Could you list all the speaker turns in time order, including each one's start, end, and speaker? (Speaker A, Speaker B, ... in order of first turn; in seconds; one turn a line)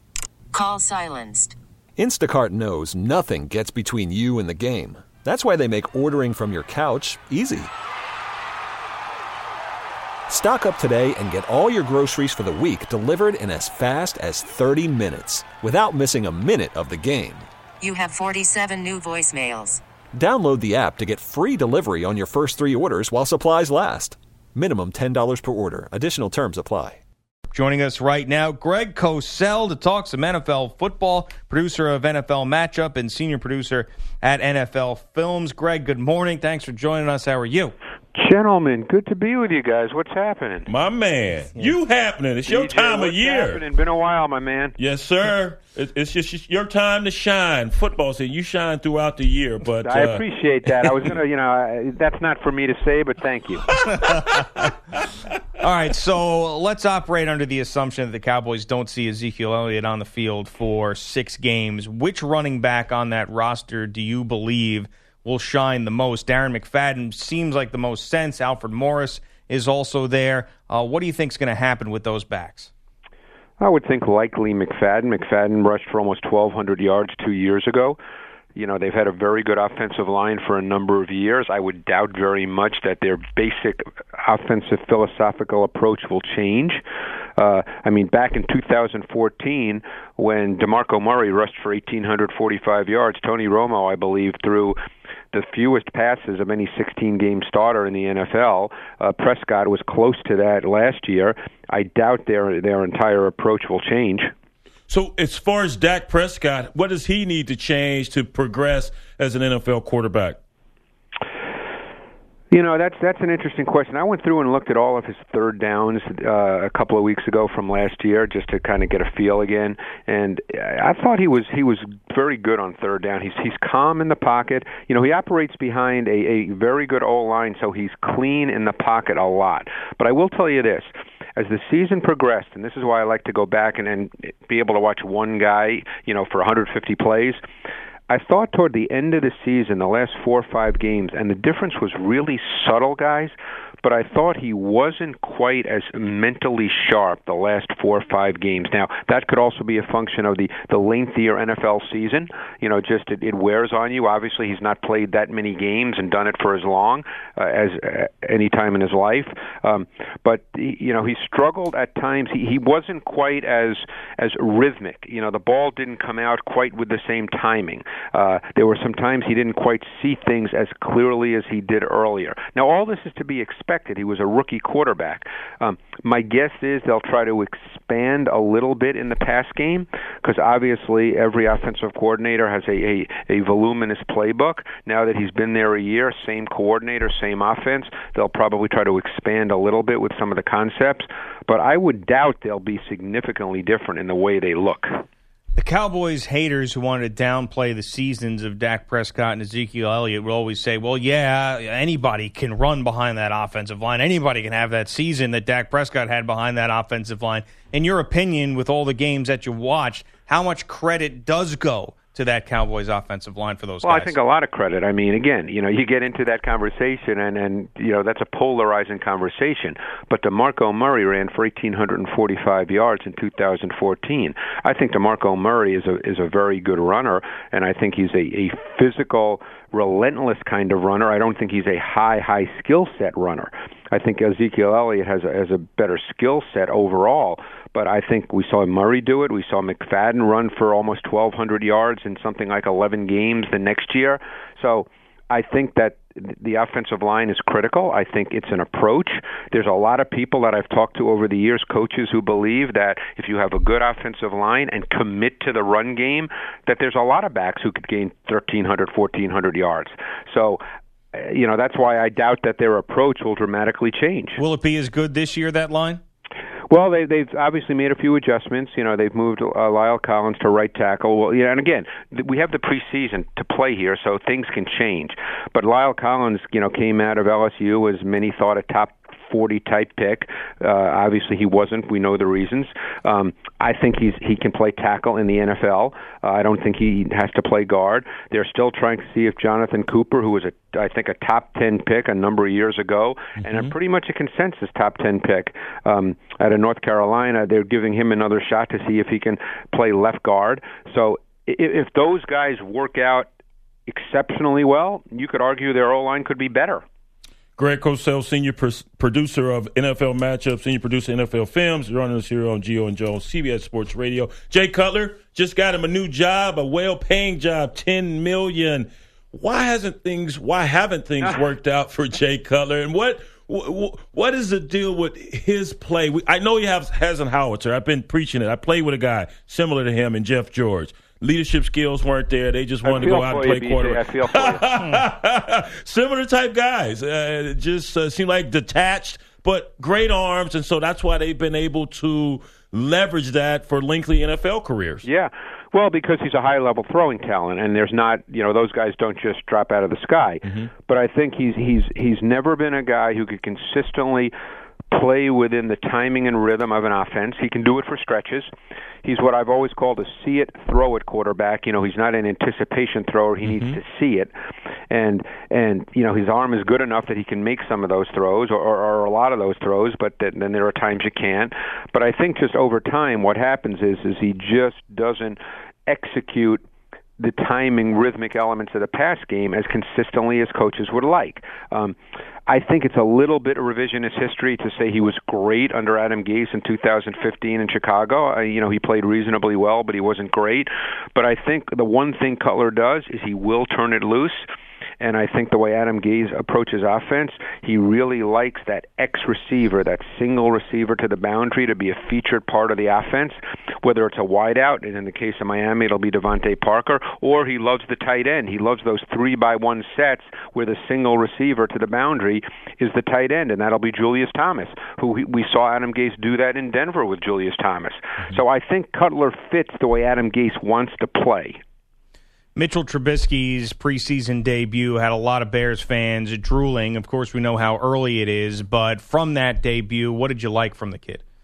Speaker A: 0.5-1.6
Speaker B: 2.0-7.7
Speaker B: 10.3-17.5
Speaker A: 17.8-19.8
Speaker B: 20.1-27.0
Speaker C: 27.5-37.7
Speaker D: 38.1-40.7
Speaker E: 40.7-43.6
Speaker D: 42.5-44.7
Speaker E: 44.8-50.2
Speaker D: 49.8-53.7
Speaker E: 50.7-51.0
Speaker C: 55.6-72.7
Speaker D: 73.6-78.0
Speaker D: 78.5-86.8
Speaker D: 87.4-94.8
Speaker D: 95.3-104.3
Speaker E: 104.9-110.4
Speaker D: 112.5-137.4
Speaker D: 138.1-195.0
Speaker C: 195.5-214.2
Speaker D: 213.8-260.6
Speaker D: 261.1-264.4
Speaker C: 264.4-266.0
Speaker D: 266.7-303.3
Speaker D: 303.9-306.8
Speaker E: 307.6-345.1
Speaker D: 332.8-334.7
Speaker D: 345.0-354.3
Speaker D: 354.9-358.5
Speaker D: 359.0-364.3
Speaker D: 364.9-376.6
Speaker D: 377.2-394.4
Speaker D: 395.0-421.6
Speaker C: 422.5-431.2